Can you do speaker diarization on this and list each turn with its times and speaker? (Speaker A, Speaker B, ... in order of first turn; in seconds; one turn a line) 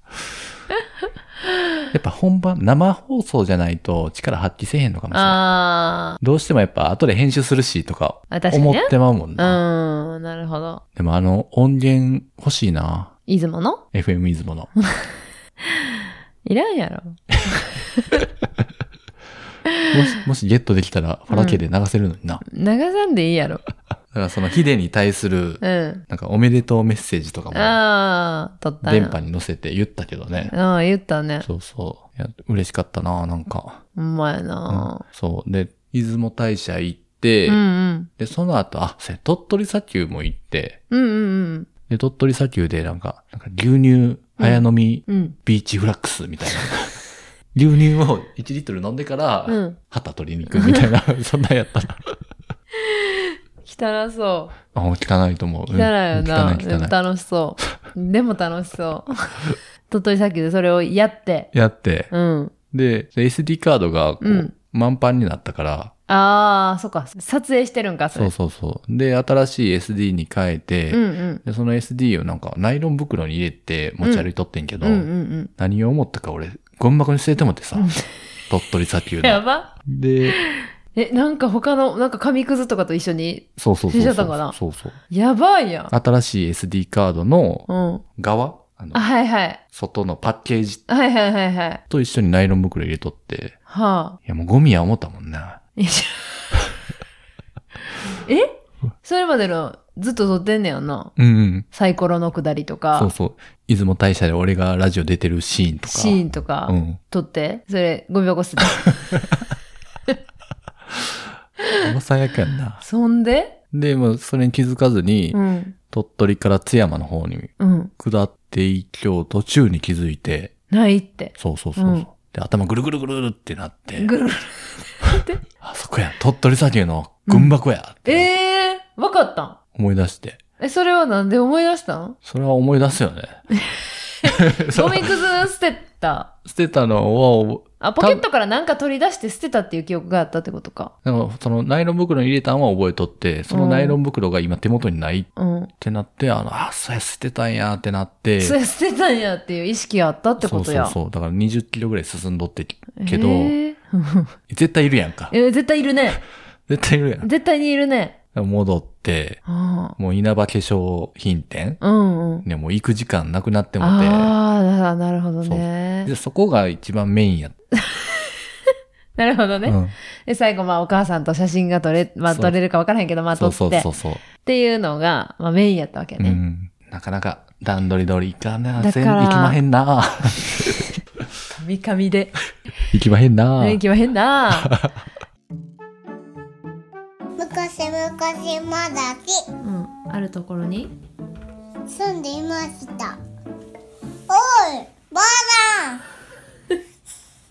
Speaker A: 1.9-5.4
Speaker B: 5.1-6.2
Speaker A: 6.2-9.6
Speaker B: 8.3-10.8
Speaker A: 10.9-13.1
Speaker B: 13.2-13.8
Speaker A: 13.9-14.7
Speaker B: 14.8-15.1
Speaker B: 15.6-18.2
Speaker A: 19.9-22.4
Speaker B: 21.3-21.6
Speaker B: 22.5-23.6
Speaker A: 24.1-27.8
Speaker B: 25.6-26.0
Speaker B: 27.5-29.2
Speaker A: 28.8-30.5
Speaker B: 30.5-31.5
Speaker A: 31.4-33.8
Speaker B: 34.0-35.0
Speaker A: 34.7-37.6
Speaker B: 37.5-38.1
Speaker A: 38.2-40.8
Speaker B: 40.9-41.7
Speaker A: 41.9-47.0
Speaker B: 44.4-45.4
Speaker A: 47.5-52.2
Speaker B: 49.5-49.8
Speaker B: 50.5-50.9
Speaker B: 52.9-54.6
Speaker A: 54.7-57.0
Speaker B: 55.7-61.5
Speaker A: 61.5-62.1
Speaker B: 62.1-62.5
Speaker A: 62.7-65.9
Speaker B: 64.2-64.5
Speaker B: 66.1-68.3
Speaker A: 68.1-77.9
Speaker B: 70.9-71.4
Speaker B: 74.0-74.3
Speaker B: 74.8-75.5
Speaker B: 77.8-78.1
Speaker A: 78.5-80.4
Speaker B: 79.2-79.7
Speaker B: 80.2-84.5
Speaker A: 83.6-85.0
Speaker B: 85.1-85.9
Speaker A: 85.9-89.0
Speaker B: 87.7-88.0
Speaker B: 88.9-89.6
Speaker A: 89.7-90.8
Speaker B: 90.9-91.8
Speaker A: 91.9-93.6
Speaker B: 93.7-94.2
Speaker A: 94.2-95.6
Speaker B: 95.8-96.6
Speaker B: 98.2-101.1
Speaker A: 101.2-101.7
Speaker B: 101.7-103.1
Speaker A: 102.9-107.0
Speaker B: 105.8-108.9
Speaker A: 111.8-112.8
Speaker B: 112.8-113.6
Speaker A: 113.7-115.4
Speaker B: 115.3-115.7
Speaker A: 115.9-120.5
Speaker B: 117.6-117.9
Speaker B: 120.7-122.0
Speaker A: 121.4-124.1
Speaker B: 124.0-125.4
Speaker A: 125.6-128.3
Speaker B: 127.3-129.6
Speaker A: 129.7-130.4
Speaker B: 130.6-132.2
Speaker A: 132.2-133.4
Speaker B: 133.6-136.3
Speaker A: 134.2-135.1
Speaker A: 136.4-138.2
Speaker B: 137.8-140.9
Speaker A: 141.0-145.3
Speaker B: 143.5-144.0
Speaker B: 145.4-145.7
Speaker A: 145.8-148.6
Speaker B: 148.4-151.0
Speaker A: 150.4-153.6
Speaker B: 152.9-154.3
Speaker A: 154.5-155.3
Speaker B: 155.3-156.2
Speaker A: 156.7-157.3
Speaker B: 157.2-158.2
Speaker A: 158.3-159.4
Speaker B: 159.4-159.9
Speaker A: 160.0-161.8
Speaker B: 161.8-162.4
Speaker A: 162.4-164.3
Speaker B: 163.8-166.1
Speaker A: 165.4-167.6
Speaker B: 167.8-168.3
Speaker B: 169.2-176.4
Speaker A: 169.6-169.9
Speaker A: 172.3-172.5
Speaker A: 173.3-174.2
Speaker A: 176.2-180.9
Speaker B: 178.8-179.6
Speaker B: 181.6-182.4
Speaker A: 182.9-183.8
Speaker B: 183.6-184.7
Speaker A: 184.5-185.0
Speaker C: 187.4-189.4
Speaker B: 189.6-190.9
Speaker C: 191.9-193.2
Speaker C: 194.3-196.0